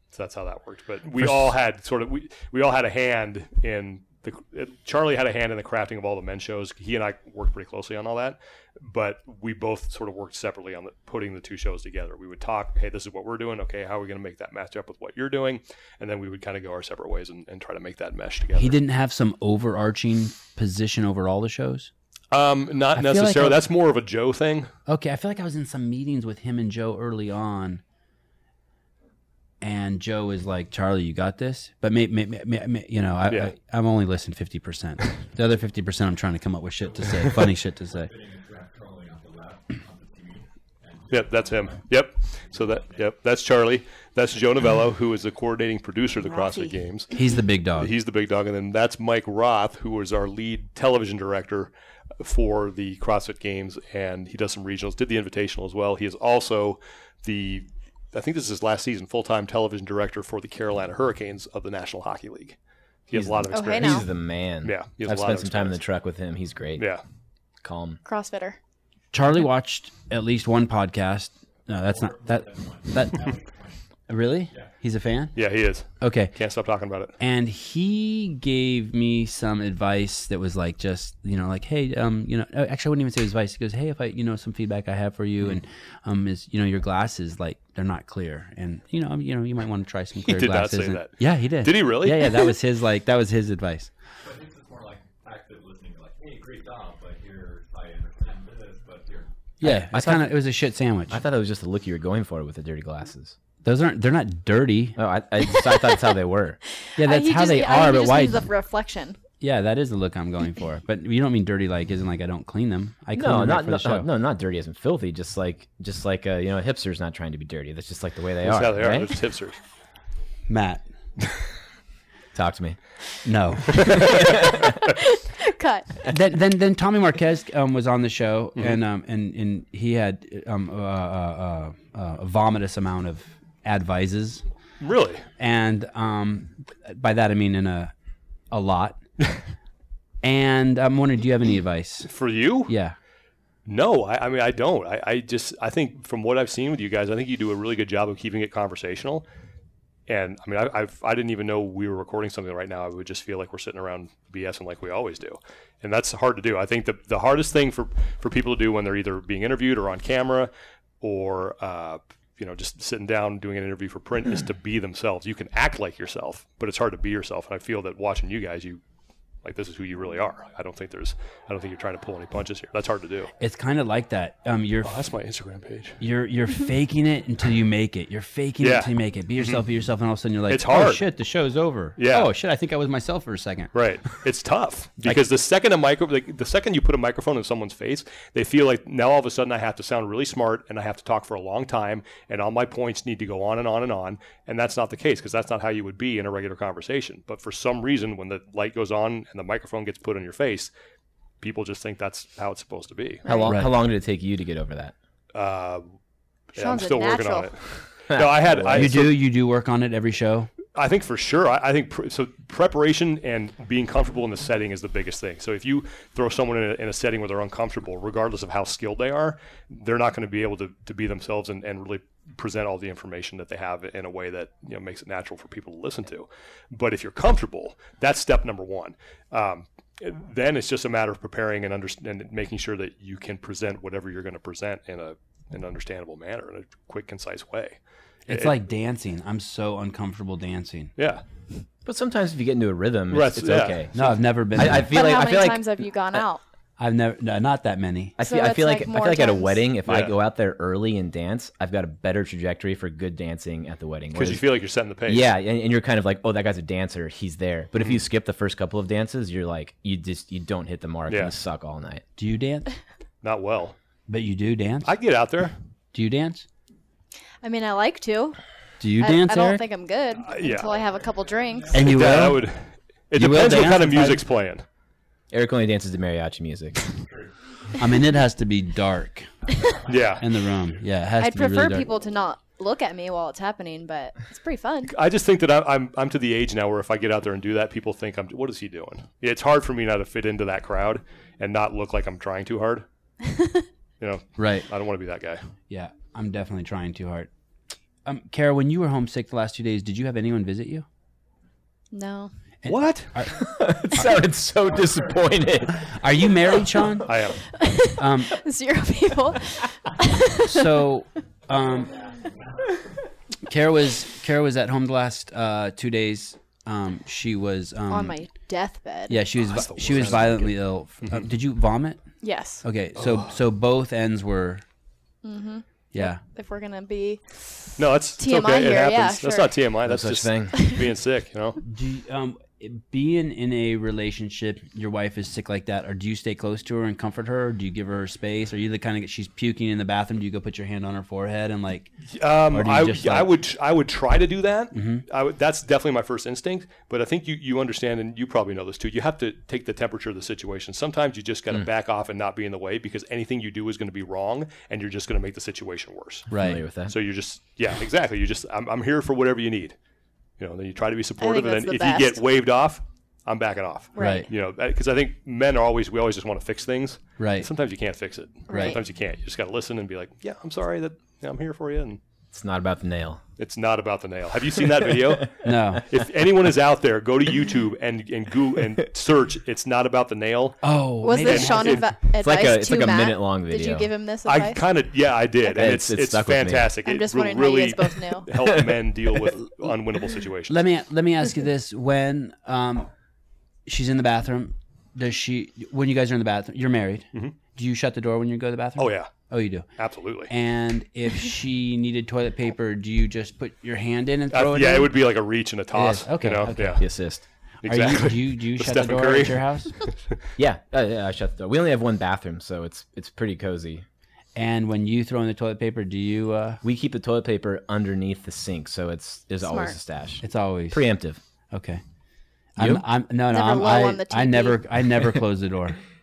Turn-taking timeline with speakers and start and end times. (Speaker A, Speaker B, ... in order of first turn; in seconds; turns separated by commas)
Speaker A: 0.1-18.8, Speaker B: 1.2-1.5, Speaker B: 18.6-21.9, Speaker A: 22.3-24.7, Speaker B: 22.9-23.6, Speaker B: 24.9-27.8, Speaker B: 29.6-38.1, Speaker C: 37.9-41.8, Speaker A: 41.1-47.1, Speaker C: 42.5-43.0, Speaker D: 46.2-46.8, Speaker B: 47.1-47.9, Speaker A: 47.8-62.6, Speaker A: 63.1-64.1, Speaker E: 63.1-66.9, Speaker D: 63.5-64.0, Speaker A: 64.6-65.8, Speaker E: 67.6-68.0, Speaker D: 68.0-68.6, Speaker B: 69.1-73.3, Speaker C: 71.9-73.8, Speaker B: 74.1-75.3, Speaker A: 75.3-77.2, Speaker B: 76.0-76.3, Speaker B: 77.2-93.9, Speaker A: 90.2-92.5, Speaker C: 94.2-99.3, Speaker B: 99.6-101.2, Speaker E: 99.6-100.4, Speaker E: 101.1-103.3, Speaker B: 103.6-105.0, Speaker E: 105.0-106.6, Speaker D: 107.0-109.2, Speaker B: 107.0-108.4, Speaker B: 109.4-114.1, Speaker E: 113.2-119.1, Speaker A: 118.4-119.6, Speaker B: 120.5-120.8, Speaker E: 122.3-122.8, Speaker B: 123.2-124.2, Speaker A: 123.8-124.2, Speaker E: 123.9-124.7, Speaker D: 124.7-126.0, Speaker B: 126.1-134.4, Speaker A: 134.8-135.2, Speaker B: 135.4-137.9, Speaker B: 138.5-139.0, Speaker B: 140.2-142.1, Speaker A: 142.1-142.7, Speaker B: 142.7-143.0, Speaker A: 143.7-149.2, Speaker A: 150.1-168.8, Speaker A: 169.4-173.3, Speaker B: 173.4-175.0, Speaker A: 174.8-176.0, Speaker B: 176.0-183.7, Speaker A: 178.6-179.6, Speaker A: 180.5-181.0, Speaker A: 182.0-182.3, Speaker A: 183.7-200.7, Speaker A: 201.4-203.2, Speaker D: 203.3-203.5, Speaker E: 203.3-204.9, Speaker B: 203.4-203.7, Speaker A: 205.3-205.9, Speaker A: 206.5-209.1, Speaker D: 206.6-207.5, Speaker E: 208.1-209.1, Speaker B: 208.7-210.5, Speaker A: 210.8-238.6, Speaker B: 238.3-240.9, Speaker A: 241.0-241.2, Speaker E: 241.8-246.2, Speaker A: 243.1-244.0, Speaker B: 243.9-244.9, Speaker D: 244.9-246.4, Speaker B: 246.8-248.2, Speaker E: 248.2-254.4, Speaker D: 248.2-249.6, Speaker A: 249.8-250.2, Speaker A: 254.1-255.3, Speaker E: 255.1-262.0, Speaker A: 261.1-261.3, Speaker B: 262.2-262.8, Speaker A: 263.2-263.8, Speaker B: 264.1-264.9, Speaker A: 264.8-265.6, Speaker B: 265.9-266.4, Speaker D: 267.4-268.4, Speaker B: 268.8-269.6, Speaker D: 269.0-272.2, Speaker A: 270.2-270.8, Speaker C: 271.6-271.9, Speaker B: 271.7-272.4, Speaker A: 271.8-274.6, Speaker B: 273.1-274.2, Speaker E: 275.3-276.8, Speaker B: 277.8-279.3, Speaker A: 279.9-280.3, Speaker B: 280.2-281.9, Speaker D: 281.2-284.9, Speaker A: 284.9-292.8, Speaker D: 293.3-293.6, Speaker A: 294.0-295.5, Speaker B: 294.4-294.7, Speaker B: 295.7-297.3, Speaker B: 298.1-300.9, Speaker D: 301.9-302.3, Speaker B: 302.6-304.1, Speaker A: 302.7-303.1, Speaker E: 303.3-306.0, Speaker B: 305.8-307.2, Speaker A: 307.0-307.4, Speaker D: 307.5-310.8, Speaker B: 308.0-308.4, Speaker B: 310.4-312.0, Speaker B: 313.5-318.2, Speaker D: 317.9-319.2, Speaker B: 319.1-322.1, Speaker A: 319.4-320.5, Speaker D: 322.2-322.6, Speaker B: 322.6-324.6, Speaker A: 322.9-323.4, Speaker D: 325.2-327.5, Speaker B: 325.9-326.2, Speaker A: 327.8-331.6, Speaker D: 328.2-329.5, Speaker E: 329.9-330.7, Speaker D: 330.5-330.8, Speaker B: 331.6-341.9, Speaker A: 342.1-356.3, Speaker B: 342.5-343.3, Speaker B: 344.7-345.0, Speaker B: 356.3-356.6, Speaker E: 356.3-356.9, Speaker A: 356.9-359.8, Speaker A: 360.4-372.0, Speaker D: 361.2-362.2, Speaker D: 363.9-364.3, Speaker B: 364.0-364.3, Speaker B: 367.2-367.5, Speaker B: 368.5-368.8, Speaker D: 368.5-368.8, Speaker E: 372.3-373.2, Speaker A: 373.4-381.9, Speaker B: 375.4-375.8, Speaker B: 380.6-381.9, Speaker D: 381.0-384.6, Speaker E: 382.2-383.9, Speaker A: 384.3-390.6, Speaker E: 385.5-386.8, Speaker D: 386.8-388.3, Speaker B: 390.5-392.9, Speaker B: 393.7-399.7, Speaker A: 398.8-399.1, Speaker A: 399.8-400.3, Speaker B: 400.3-404.9, Speaker A: 404.3-406.9, Speaker B: 405.7-406.9, Speaker E: 406.8-407.2, Speaker B: 407.6-409.8, Speaker A: 407.6-409.9, Speaker E: 410.4-413.8, Speaker B: 414.4-416.6, Speaker E: 416.6-421.2, Speaker D: 419.4-419.8, Speaker B: 420.2-420.8, Speaker B: 421.5-421.8, Speaker B: 422.6-425.8, Speaker E: 422.6-422.8, Speaker D: 423.3-424.6